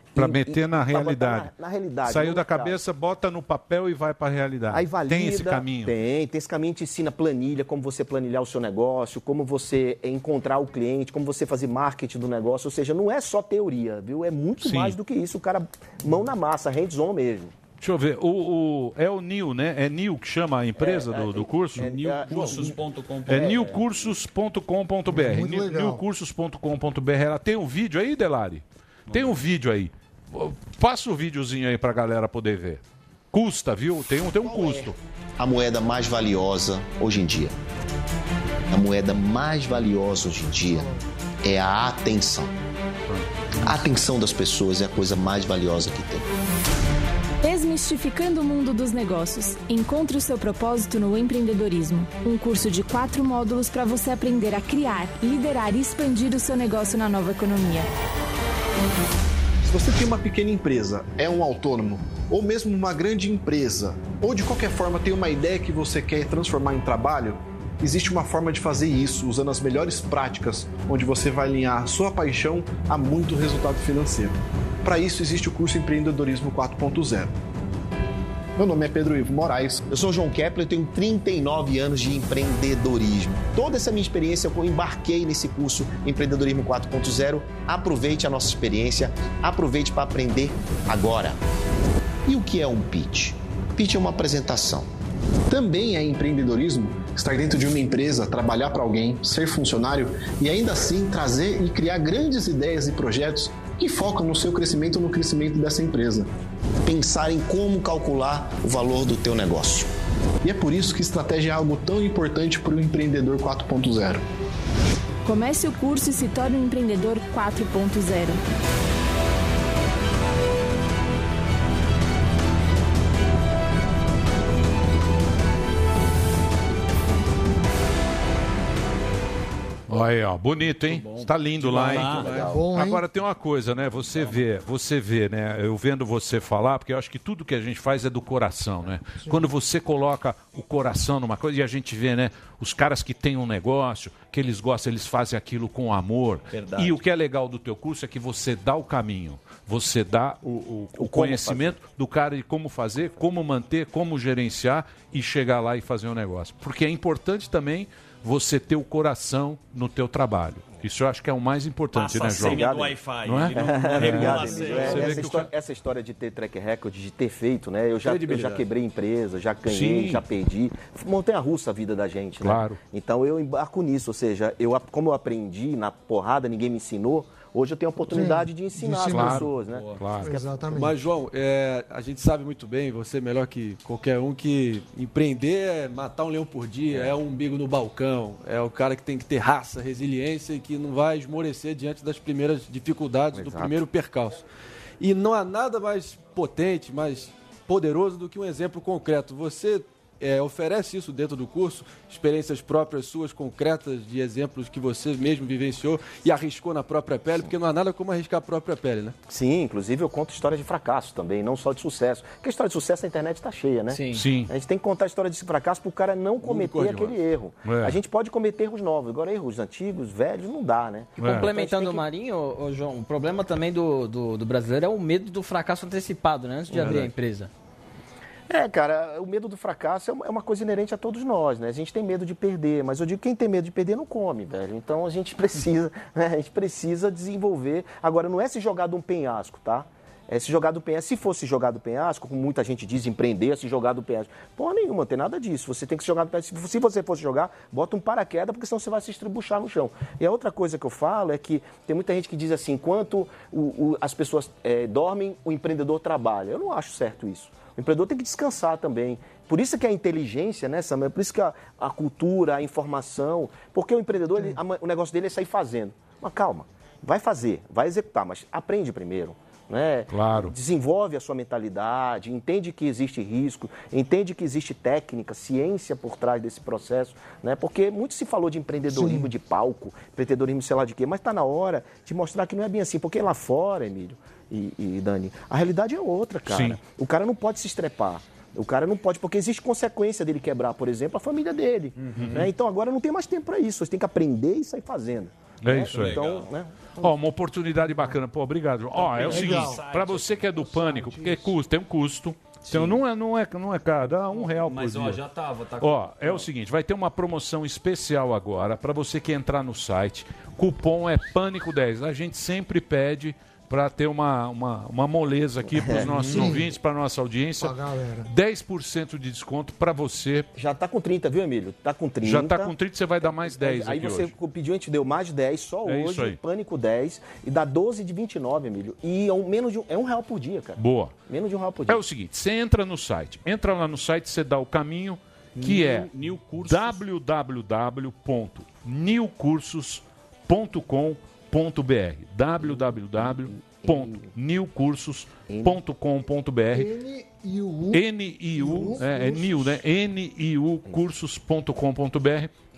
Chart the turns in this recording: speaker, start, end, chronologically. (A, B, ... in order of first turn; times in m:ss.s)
0:00.1-0:02.8 A
0:00.2-0:01.5 B
0:02.0-0:05.9 B
0:04.7-0:17.5 A
0:14.6-0:15.0 B
0:17.8-0:22.5 B
0:20.8-0:22.8 A
0:21.8-0:23.8 C
0:23.3-0:34.9 B
0:25.1-0:26.0 D
0:29.1-0:29.4 C
0:35.4-0:37.5 E
0:38.7-0:40.9 E
0:40.7-0:41.0 D
0:41.4-0:42.5 E
0:43.6-0:46.2 E
0:47.4-0:57.9 F
0:59.6-1:17.3 G
1:18.6-1:19.9 G
1:19.9-1:31.4 E
1:32.2-1:34.9 E
1:35.5-1:46.3 G
1:46.8-1:49.9 E
1:50.4-1:54.2 G
1:55.2-1:58.4 F
2:09.9-2:42.7 B
2:10.9-2:12.4 C
2:11.6-2:12.6 H
2:12.2-2:13.0 D
2:26.5-2:26.9 C
2:30.9-2:31.8 A
2:41.9-2:45.3 C
2:42.4-3:00.5 A
2:43.2-2:45.5 B
2:48.1-2:48.6 H
2:48.1-2:48.5 C
2:49.7-2:50.2 B
2:52.4-2:52.8 B
2:58.1-2:59.5 D
2:59.0-3:00.3 B
2:59.6-3:00.0 H
3:00.2-3:00.9 D
3:00.6-3:14.4 H
3:13.3-3:13.7 A
3:15.0-3:29.2 H
3:29.3-3:42.0 A
3:33.9-3:34.3 I
3:34.1-3:34.5 B
3:36.4-3:37.2 H
3:37.6-3:38.0 B
3:41.2-3:41.5 B
3:41.2-3:47.5 I
3:46.7-3:47.1 H
3:46.7-3:47.0 A
3:48.5-4:56.8 A
4:30.1-4:30.5 B
4:38.9-4:39.3 D
4:46.5-4:46.8 B
4:52.0-4:52.5 C
4:52.2-4:52.5 B
4:55.6-4:56.2 B
4:55.7-4:56.5 C
4:57.0-5:05.2 B
4:57.9-4:58.1 D
4:58.9-5:00.6 C
4:59.2-4:59.8 D
5:00.7-5:01.5 D
5:02.7-5:03.0 C
5:04.3-5:06.4 C
5:05.8-5:17.7 B
5:15.7-5:16.5 A
5:16.0-5:16.7 D
5:17.6-5:18.3 D
5:18.2-5:20.5 B
5:20.5-5:32.0 A
5:22.2-5:24.3 B
5:25.8-5:26.4 B
5:30.8-5:31.1 B
5:31.9-5:36.1 B
5:35.6-5:37.0 C
5:36.6-5:46.9 B
5:43.9-5:44.3 A
5:45.5-5:45.8 A
5:46.7-5:48.0 D
5:47.9-5:52.5 B
5:48.6-5:49.8 D